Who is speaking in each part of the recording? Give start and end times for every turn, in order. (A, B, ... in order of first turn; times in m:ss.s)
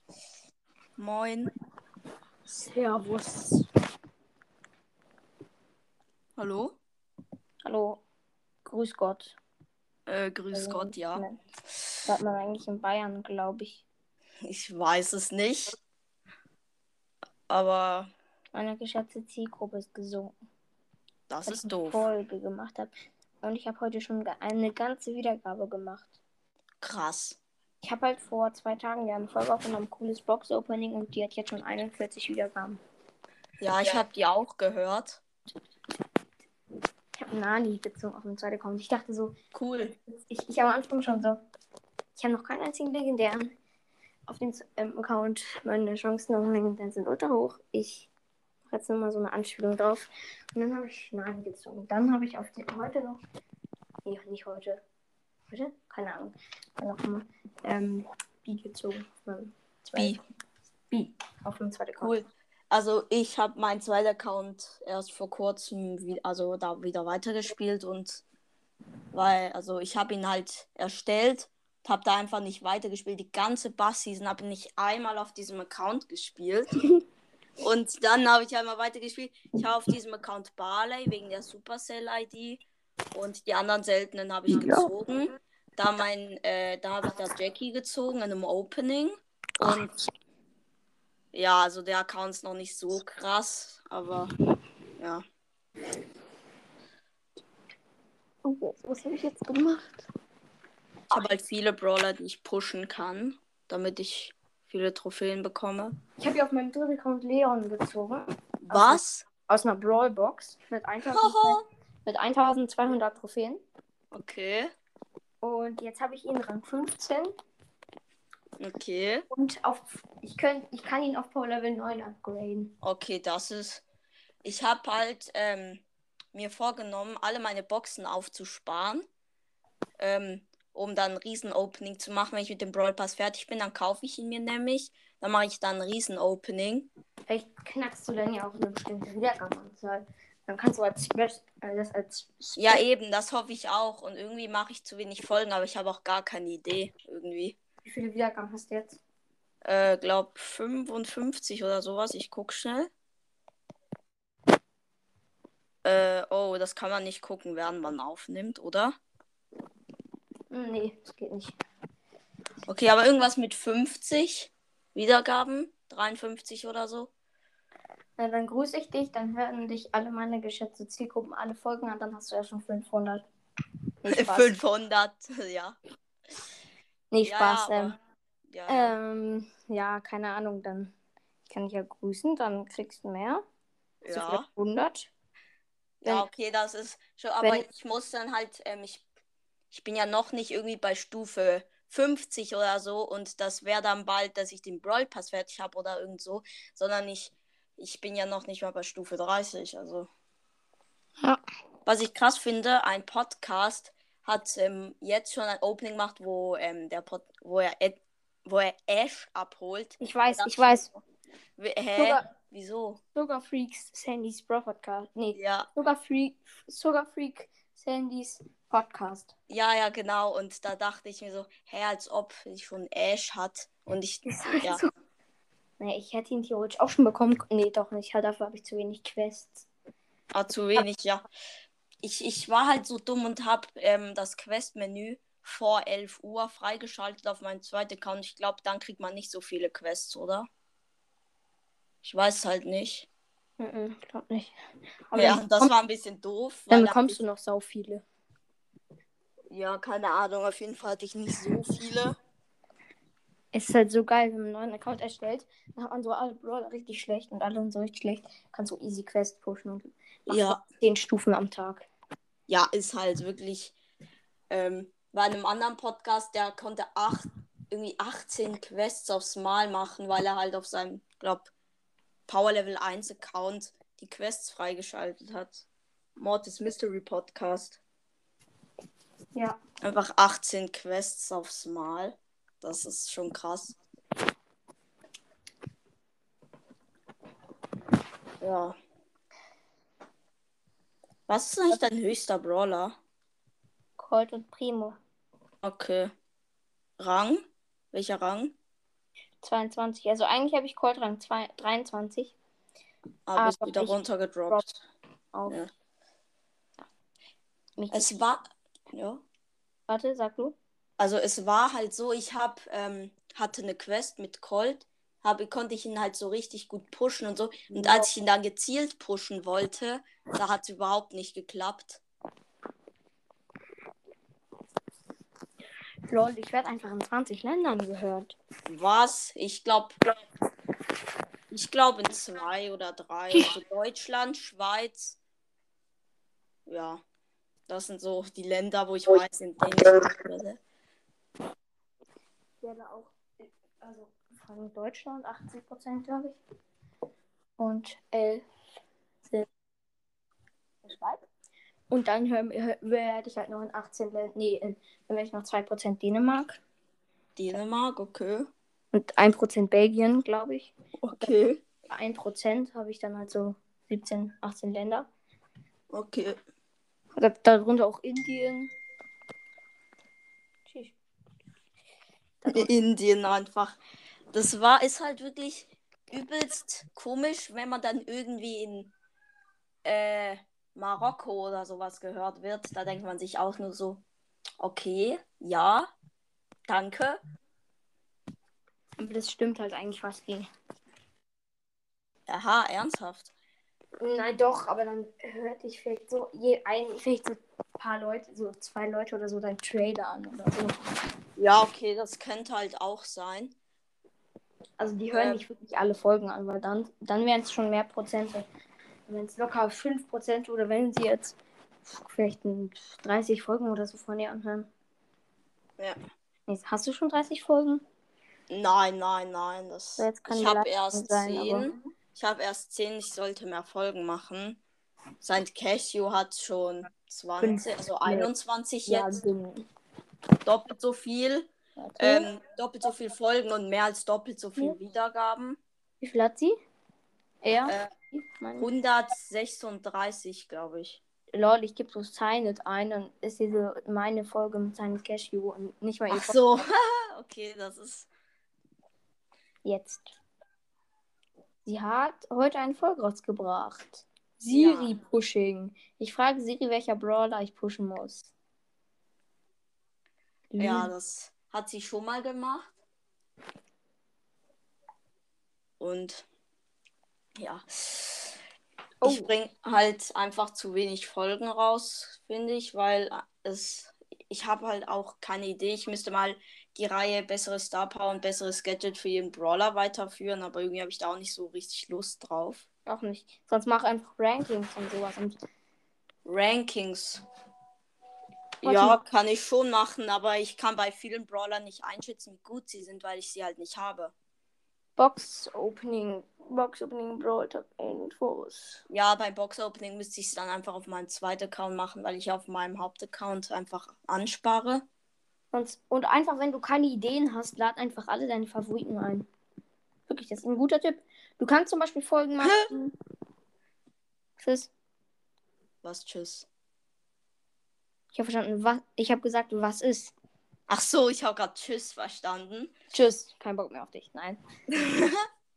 0:01.0-0:01.5 A
0:02.5-0:03.7 B
0:06.4-0:06.8 A
0:07.6-0:08.0 B
0:08.6-0:09.4 B
0:10.1-0:11.2 A
0:10.5-0:11.4 B
0:12.1-0:13.8 B
0:14.4-0:15.8 A
0:17.5-0:18.1 A
0:18.5-0:20.4 B
0:21.3-0:22.1 A
0:21.4-0:26.2 B
0:26.8-0:27.4 A
0:27.8-0:32.8 B
0:33.6-0:35.2 A
0:33.8-0:34.0 B
0:37.2-0:39.4 B
0:39.5-0:40.0 A
0:40.1-0:41.4 B
0:42.2-0:43.6 B
0:44.3-0:48.1 B
0:48.7-0:53.2 B
0:54.0-0:54.8 B
0:55.5-1:00.2 B
1:00.9-1:02.2 B
1:02.0-1:08.2 A
1:09.1-1:16.9 A
1:17.6-1:22.6 A
1:23.1-1:29.9 A
1:24.5-1:24.9 B
1:31.3-1:34.3 A
1:35.0-1:35.2 A
1:38.4-1:40.1 B
1:41.1-1:46.0 A
1:46.2-1:53.6 B
1:48.6-1:49.3 A
1:51.1-1:51.6 A
1:54.1-1:54.7 A
1:55.4-1:57.3 B
1:58.6-1:59.3 A
1:59.3-2:02.8 B
2:02.8-2:03.8 A
2:04.4-2:05.8 A
2:06.3-2:09.0 A
2:10.0-2:16.9 A
2:17.3-2:22.8 B
2:22.6-2:27.6 A
2:27.8-2:29.0 B
2:29.6-2:32.9 A
2:35.8-2:39.0 A
2:40.5-2:41.6 B
2:42.7-2:47.1 A
2:48.2-2:53.3 B
2:54.0-2:54.5 B
2:54.1-2:55.8 A
2:57.1-2:58.0 B
2:57.2-2:59.0 A
2:58.7-3:00.9 B
3:01.5-3:03.4 B
3:04.0-3:04.5 A
3:04.1-3:05.1 B
3:06.0-3:09.1 A
3:07.4-3:07.7 B
3:09.7-3:20.1 A
3:21.8-3:31.0 A
3:30.0-3:30.9 B
3:31.6-3:33.0 A
3:32.0-3:32.3 B
3:33.2-3:39.3 B
3:35.4-3:35.7 A
3:39.5-3:44.8 A
3:44.2-3:44.9 B
3:45.8-3:49.7 B
3:50.3-3:51.2 A
3:52.0-4:00.5 A
4:02.0-4:03.1 A
4:03.6-4:05.7 B
4:05.2-4:07.2 A
4:06.7-4:08.0 B
4:09.5-4:12.2 A
4:13.5-4:21.9 B
4:20.3-4:20.6 A
4:22.5-4:23.8 A
4:24.5-4:31.5 A
4:32.3-4:35.7 A
4:36.2-4:37.8 A
4:39.8-4:43.8 A
4:48.4-4:48.8 A
4:51.3-4:53.0 A
4:54.0-4:55.0 B
4:55.6-4:56.1 A
4:57.0-4:58.6 A
4:59.4-5:02.4 B
5:03.3-5:04.7 A
5:03.4-5:04.8 B
5:05.3-5:05.6 B
5:07.8-5:08.2 B
5:07.9-5:09.2 A
5:09.9-5:10.6 B
5:11.0-5:22.0 A
5:17.7-5:18.1 B
5:26.1-5:28.4 B
5:28.7-5:30.0 A
5:31.5-5:35.2 A
5:36.7-5:37.0 A
5:37.7-5:40.6 A
5:42.6-5:43.2 B
5:43.8-5:46.4 B
5:47.6-5:48.4 B
5:50.8-5:51.2 B
5:51.9-5:56.6 B
5:57.4-5:58.5 A
5:58.9-6:00.7 B
6:01.0-6:01.6 A
6:01.9-6:05.1 B
6:05.9-6:06.4 A
6:07.2-6:08.7 B
6:10.7-6:11.0 B
6:12.4-6:12.7 B
6:12.5-6:13.8 A
6:14.3-6:18.9 A
6:19.8-6:24.0 A
6:24.6-6:25.9 A
6:26.7-6:27.2 A
6:29.0-6:30.5 B
6:32.3-6:33.3 A
6:34.0-6:40.9 B
6:41.4-6:43.6 A
6:44.8-6:48.5 B
6:45.1-6:45.4 A
6:49.1-6:54.7 B
6:56.5-6:57.8 B
6:58.5-7:04.6 A
7:00.0-7:01.7 B
7:05.2-7:09.2 A
7:07.4-7:08.3 B
7:08.9-7:09.7 B
7:10.4-7:15.6 A
7:11.8-7:12.3 B
7:16.0-7:16.6 B
7:17.4-7:18.7 B
7:17.7-7:17.9 A
7:18.6-7:21.0 A
7:21.3-7:26.4 B
7:26.1-7:28.1 A
7:29.6-7:30.2 B
7:31.6-7:38.3 B
7:34.5-7:34.9 A
7:40.5-7:40.9 B
7:40.6-7:42.7 A
7:45.8-7:46.3 A
7:47.4-7:48.3 A
7:49.0-7:49.3 B
7:49.0-8:02.6 A
8:02.9-8:05.4 B
8:06.2-8:07.2 A
8:08.6-8:14.1 A
8:08.6-8:09.0 B
8:15.0-8:18.8 B
8:18.9-8:24.8 A
8:25.5-8:29.3 B
8:30.1-8:32.9 B
8:32.4-8:32.7 A
8:34.4-8:34.7 B
8:35.8-8:36.5 A
8:38.1-8:40.1 B
8:40.7-8:42.7 A
8:42.9-8:44.4 B
8:44.7-8:45.2 A